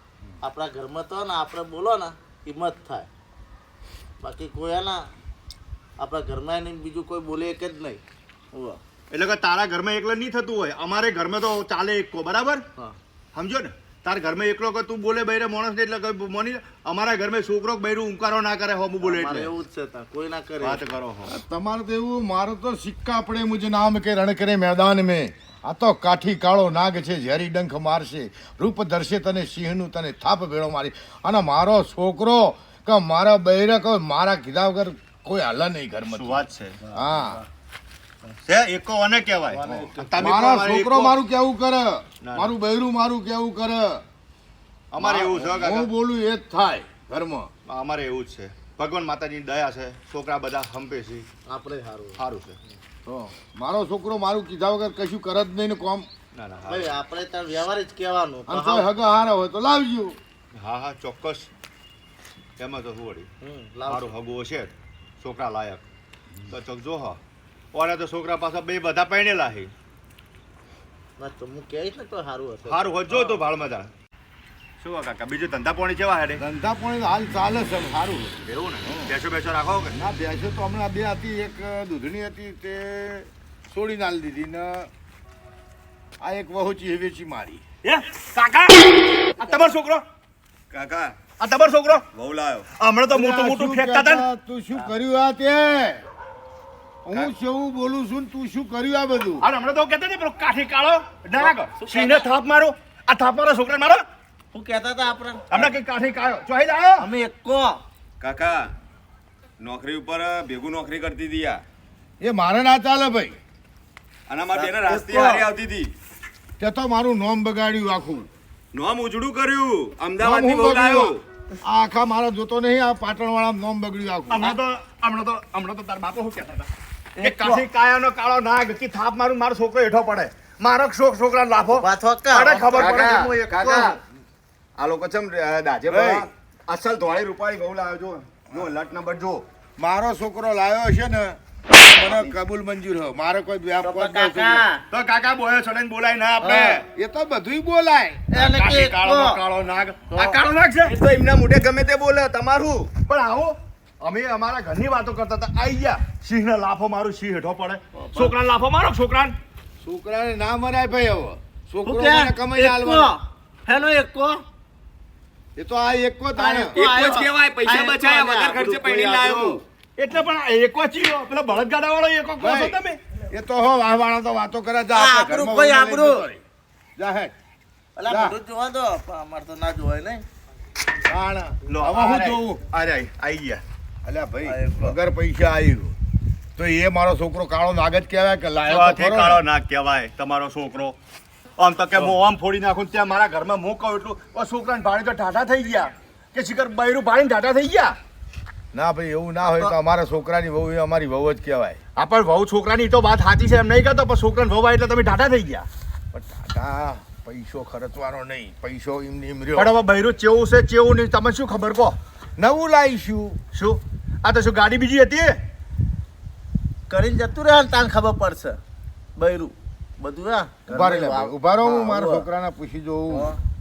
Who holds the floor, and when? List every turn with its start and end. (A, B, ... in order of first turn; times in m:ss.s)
0:00.4-0:03.1 A
0:04.2-0:05.1 A
0:06.0-0:08.0 A
0:08.5-0:08.8 A
0:09.1-0:12.6 B
0:13.3-0:19.5 B
0:19.0-0:20.8 A
0:20.6-0:21.3 B
0:21.2-0:37.4 C
0:36.1-0:36.8 B
0:36.9-0:37.4 A
0:38.4-0:41.2 B
0:39.5-0:40.2 A
0:39.7-0:44.0 C
0:42.2-0:42.6 B
0:44.9-0:45.9 B
0:45.0-0:47.5 C
0:47.6-0:51.3 B
0:51.4-0:52.2 A
0:52.2-0:52.6 B
0:53.0-0:56.1 C
0:56.3-0:56.9 B
0:56.6-0:58.8 A
0:58.5-1:00.2 C
1:00.6-1:01.5 B
1:02.6-1:03.3 B
1:03.4-1:04.2 A
1:03.8-1:05.8 B
1:06.5-1:07.2 B
1:07.7-1:09.7 B
1:11.2-1:13.4 A
1:12.6-1:13.9 B
1:14.8-1:16.4 B
1:16.4-1:19.1 C
1:18.4-1:20.0 B
1:19.9-1:24.9 C
1:26.2-1:27.6 C
1:27.8-1:30.0 B
1:30.7-1:31.2 D
1:31.4-1:32.0 B
1:32.1-1:32.7 D
1:32.7-1:34.2 B
1:33.1-1:36.0 C
1:37.0-1:39.5 C
1:39.4-1:44.0 B
1:41.4-1:42.2 A
1:44.5-1:45.7 A
1:45.5-1:47.1 B
1:47.0-1:47.8 A
1:48.2-1:48.6 D
1:49.6-1:51.6 D
1:52.2-1:53.4 C
1:54.3-1:55.9 D
1:54.5-1:55.5 A
1:56.6-1:58.3 C
1:58.7-2:01.2 D
2:00.2-2:04.6 C
2:04.3-2:13.5 B
2:07.2-2:07.6 A
2:11.7-2:13.9 A
2:12.7-2:14.0 D
2:12.8-2:13.2 C
2:14.8-2:19.4 D
2:15.9-2:16.3 C
2:19.8-2:24.6 C
2:21.8-2:22.3 A
2:23.8-2:24.8 A
2:24.9-2:26.8 B
2:26.4-2:26.7 A
2:26.7-2:28.3 C
2:28.3-2:29.4 A
2:28.3-2:30.9 B
2:30.1-2:30.4 A
2:30.9-2:32.9 D
2:33.1-2:39.4 B
2:37.9-2:38.3 A
2:39.8-2:43.1 C
2:41.8-2:44.4 A
2:45.6-2:46.8 C
2:46.3-2:49.6 A
2:46.7-2:49.6 D
2:50.0-2:53.0 B
2:52.4-2:52.8 C
2:53.3-2:56.4 C
2:54.9-2:56.3 A
2:57.0-2:57.3 C
2:58.0-3:00.2 A
2:58.1-2:58.4 C
3:01.0-3:02.6 C
3:01.7-3:03.6 B
3:04.0-3:05.9 C
3:04.4-3:04.9 A
3:06.6-3:09.4 C
3:08.6-3:11.0 B
3:11.6-3:18.0 B
3:18.7-3:21.8 C
3:22.0-3:25.7 B
3:26.1-3:29.7 C
3:29.5-3:32.0 B
3:32.4-3:33.4 C
3:33.5-3:35.4 B
3:36.9-3:38.6 A
3:39.2-3:42.2 A
3:40.7-3:43.3 C
3:43.1-3:43.4 A